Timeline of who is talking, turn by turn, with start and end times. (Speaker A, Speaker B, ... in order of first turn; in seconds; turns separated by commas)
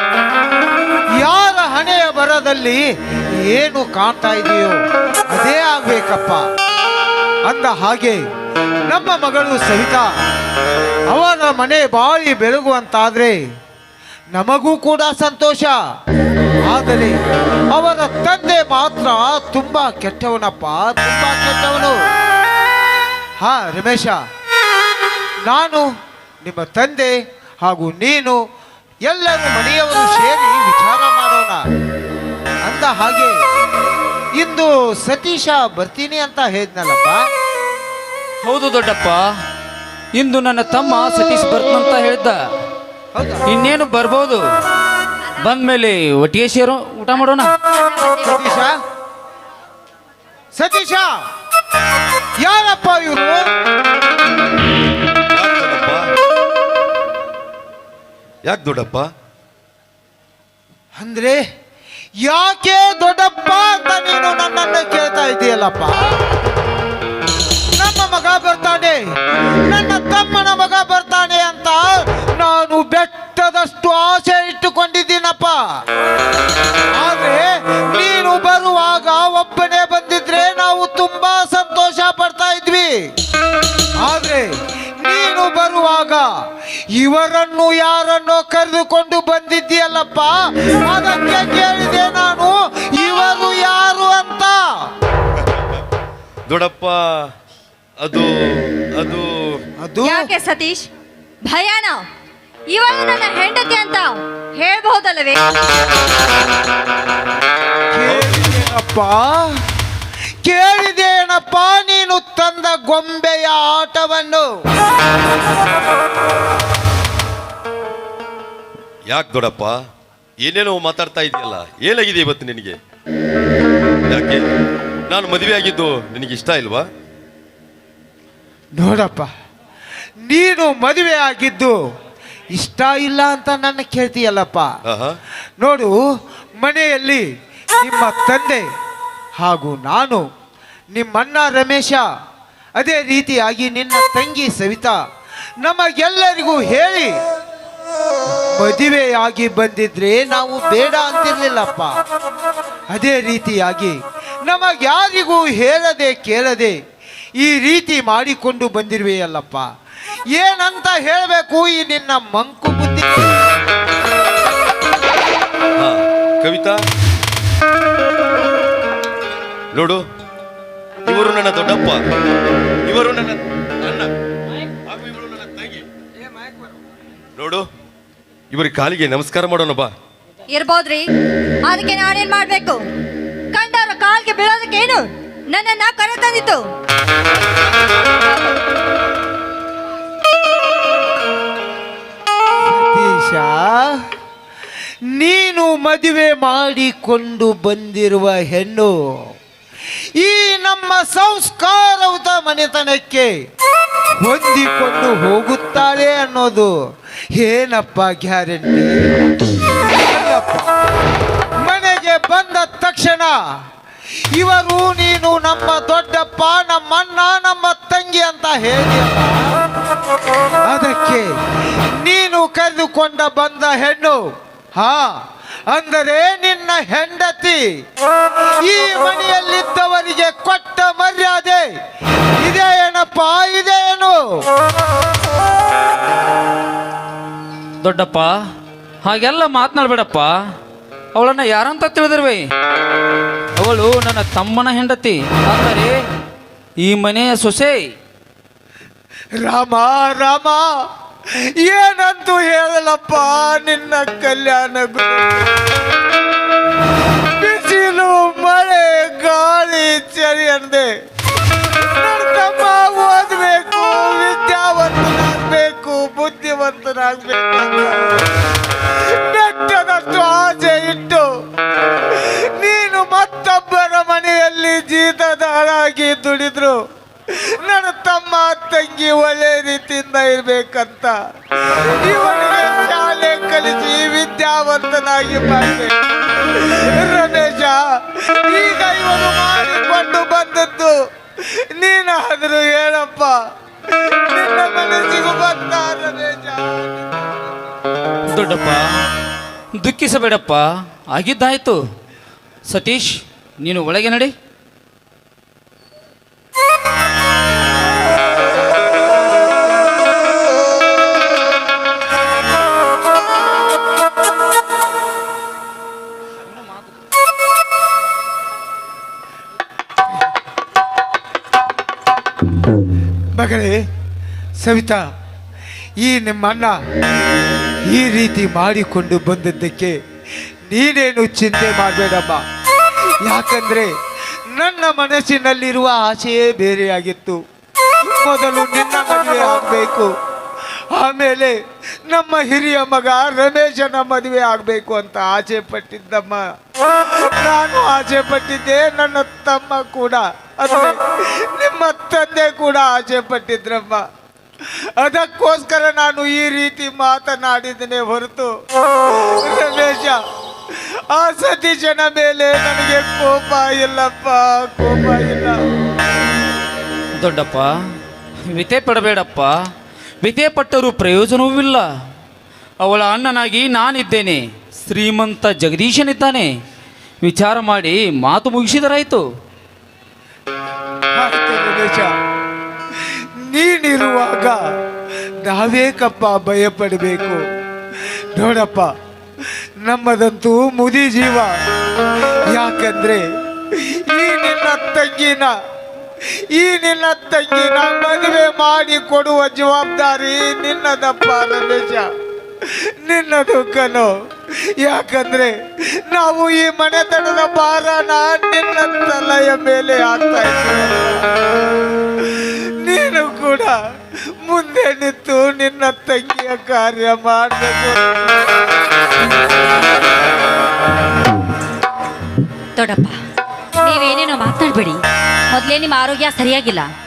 Speaker A: 1.2-2.8, Speaker A: 3.4-4.8, Speaker A: 5.3-6.5, Speaker A: 7.5-8.2, Speaker A: 8.8-10.1, Speaker A: 11.1-13.4, Speaker A: 14.3-15.8, Speaker A: 16.7-17.2, Speaker A: 17.7-22.0, Speaker A: 23.4-24.2, Speaker A: 25.4-25.9, Speaker A: 26.4-28.4, Speaker A: 29.1-31.6, Speaker A: 32.6-33.3, Speaker A: 34.4-37.2, Speaker B: 38.4-39.2, Speaker B: 40.2-42.4, Speaker A: 43.1-43.4, Speaker B: 43.5-44.4, Speaker B: 45.4-47.5, Speaker C: 47.6-48.7, Speaker A: 48.2-48.8, Speaker A: 50.5-51.1, Speaker A: 52.4-53.4, Speaker D: 55.3-56.1, Speaker D: 58.5-59.1, Speaker A: 61.0-61.4, Speaker A: 62.2-66.0, Speaker A: 67.8-69.0, Speaker A: 69.7-75.5, Speaker A: 77.0-82.9, Speaker A: 84.0-86.3, Speaker A: 87.0-90.3, Speaker A: 90.8-94.6, Speaker D: 96.5-97.3, Speaker D: 98.0-99.3, Speaker A: 99.8-100.3, Speaker C: 100.0-100.9, Speaker C: 101.4-102.0, Speaker C: 102.7-105.4, Speaker A: 107.9-109.5, Speaker D: 108.1-108.6, Speaker A: 110.4-114.5, Speaker D: 119.1-119.8, Speaker D: 120.4-122.8, Speaker D: 124.1-124.4, Speaker D: 125.1-126.9, Speaker A: 128.7-129.3, Speaker A: 130.2-131.8, Speaker A: 132.5-134.7, Speaker D: 134.8-135.2, Speaker A: 135.6-135.9, Speaker A: 136.6-137.2, Speaker A: 137.8-138.6, Speaker A: 139.4-140.2, Speaker A: 140.9-142.0, Speaker A: 142.8-145.0, Speaker A: 145.6-147.1, Speaker A: 148.6-151.9, Speaker A: 152.9-156.8, Speaker A: 157.4-159.7, Speaker A: 160.3-163.3, Speaker D: 165.8-166.8, Speaker D: 169.7-170.0, Speaker D: 171.1-172.0, Speaker D: 172.9-174.1, Speaker D: 174.8-175.8, Speaker D: 177.4-177.7, Speaker D: 178.5-179.9, Speaker C: 180.5-181.1, Speaker C: 181.7-182.8, Speaker C: 183.5-186.7, Speaker A: 192.6-194.0, Speaker A: 195.1-198.9, Speaker A: 200.2-203.3, Speaker A: 204.2-206.7, Speaker A: 207.3-209.0, Speaker A: 209.8-210.7, Speaker A: 211.7-213.3, Speaker A: 214.3-219.6, Speaker A: 220.7-221.3, Speaker A: 222.0-224.2, Speaker A: 224.8-227.6, Speaker A: 228.6-231.7, Speaker A: 232.4-234.4, Speaker B: 237.8-238.3, Speaker B: 239.0-240.3, Speaker B: 241.2-242.4, Speaker B: 243.6-245.9, Speaker B: 246.8-247.9, Speaker A: 249.4-250.6, Speaker A: 251.6-255.5, Speaker A: 257.4-260.9, Speaker A: 261.8-268.2, Speaker A: 269.3-271.3, Speaker A: 272.1-276.8, Speaker A: 277.3-281.1, Speaker A: 281.7-285.9, Speaker A: 286.5-293.4, Speaker A: 293.9-297.3, Speaker B: 298.3-298.8, Speaker B: 299.8-301.8, Speaker B: 302.7-304.3, Speaker A: 323.4-323.8, Speaker A: 324.6-325.0, Speaker A: 326.0-326.8, Speaker A: 327.9-330.0, Speaker A: 330.7-332.4, Speaker A: 333.2-333.9, Speaker A: 334.5-337.4, Speaker A: 338.2-340.1, Speaker A: 340.9-346.4, Speaker A: 347.0-354.0, Speaker A: 355.0-358.5, Speaker A: 359.4-360.2, Speaker A: 360.7-365.6, Speaker B: 367.2-367.7, Speaker B: 368.5-369.6, Speaker B: 370.2-371.8, Speaker B: 372.8-376.5, Speaker B: 377.2-379.2, Speaker A: 381.1-382.1, Speaker A: 382.9-384.6, Speaker A: 385.4-387.4, Speaker A: 388.3-388.9, Speaker A: 389.8-391.5, Speaker A: 392.5-395.5, Speaker A: 396.5-402.1, Speaker A: 402.6-404.1, Speaker A: 404.8-405.5, Speaker A: 406.1-411.2, Speaker A: 412.2-413.8, Speaker A: 414.4-418.4, Speaker E: 422.8-423.2, Speaker E: 423.8-425.0, Speaker E: 425.5-426.9